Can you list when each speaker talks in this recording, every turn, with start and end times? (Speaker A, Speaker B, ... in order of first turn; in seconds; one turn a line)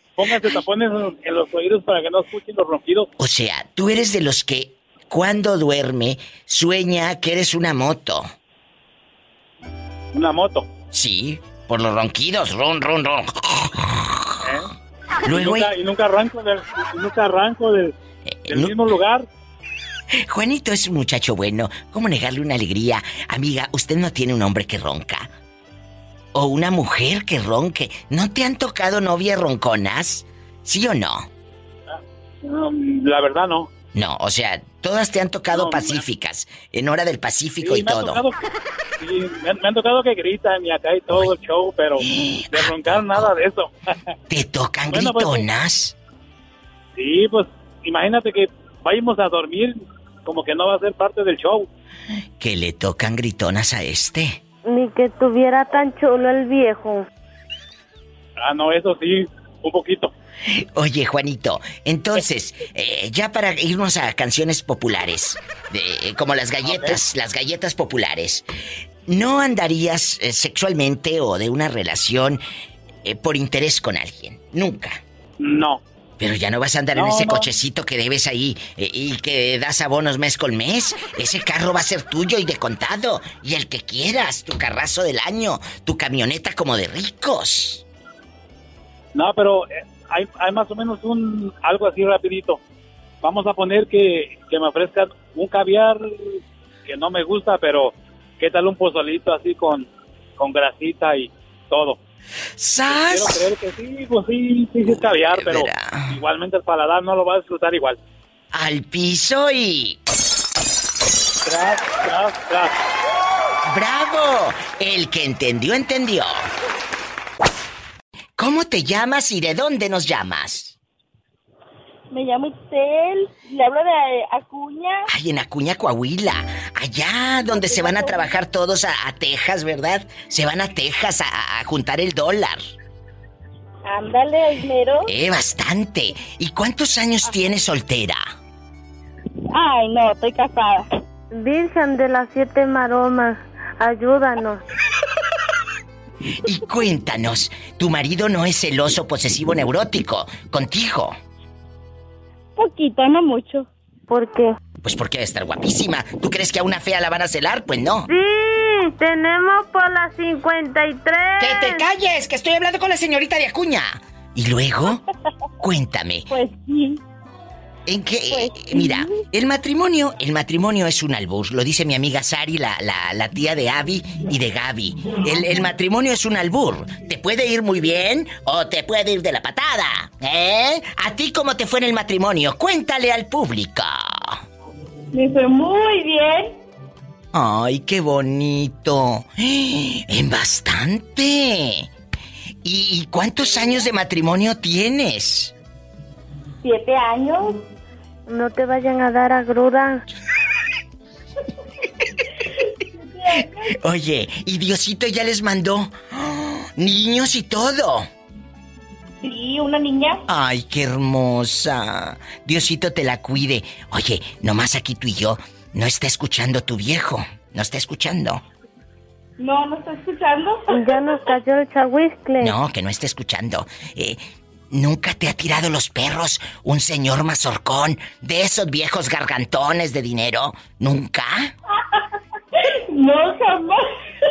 Speaker A: 0.2-3.1
Speaker B: 3.2-8.3
Speaker A: 10.1-10.7
Speaker B: 10.9-14.6
Speaker A: 14.4-14.7
Speaker B: 15.2-15.7
Speaker A: 15.3-18.0
Speaker B: 18.2-18.9
Speaker A: 18.5-19.3
Speaker B: 20.1-25.3
Speaker B: 26.3-31.3
Speaker A: 31.9-33.7
Speaker B: 33.9-38.2
Speaker A: 35.5-36.0
Speaker A: 37.6-38.4
Speaker A: 39.0-43.7
Speaker B: 42.0-43.3
Speaker B: 44.3-46.0
Speaker A: 44.9-45.5
Speaker A: 47.0-51.7
Speaker B: 52.4-54.4
Speaker C: 54.7-57.1
Speaker A: 58.4-60.1
Speaker B: 60.5-68.5
Speaker A: 66.6-67.0
Speaker B: 69.1-72.4
Speaker B: 73.0-75.0
Speaker A: 75.4-75.8
Speaker B: 76.2-87.8
Speaker A: 76.9-77.5
Speaker A: 89.2-92.6
Speaker A: 93.2-102.0
Speaker B: 102.6-103.5
Speaker A: 102.9-108.0
Speaker B: 104.8-106.2
Speaker B: 108.5-110.0
Speaker A: 111.5-112.7
Speaker B: 113.7-116.5
Speaker B: 118.4-120.8
Speaker D: 122.1-125.1
Speaker B: 125.1-132.6
Speaker D: 127.4-128.4
Speaker D: 133.9-135.1
Speaker B: 135.1-138.3
Speaker D: 139.5-140.9
Speaker C: 141.3-144.6
Speaker B: 146.4-151.2
Speaker D: 152.6-153.7
Speaker C: 154.1-154.6
Speaker B: 154.8-158.1
Speaker C: 158.1-161.8
Speaker B: 161.4-165.0
Speaker B: 165.6-166.3
Speaker D: 166.3-167.0
Speaker B: 167.9-184.4
Speaker D: 168.3-169.2
Speaker D: 185.1-186.6
Speaker B: 187.3-191.9
Speaker B: 192.6-195.5
Speaker D: 196.6-197.6
Speaker C: 198.3-200.0
Speaker D: 202.9-203.8
Speaker B: 203.4-208.1
Speaker D: 209.2-210.2
Speaker B: 210.3-218.4
Speaker D: 219.4-221.3
Speaker C: 220.7-222.6
Speaker B: 222.4-231.5
Speaker D: 232.6-233.9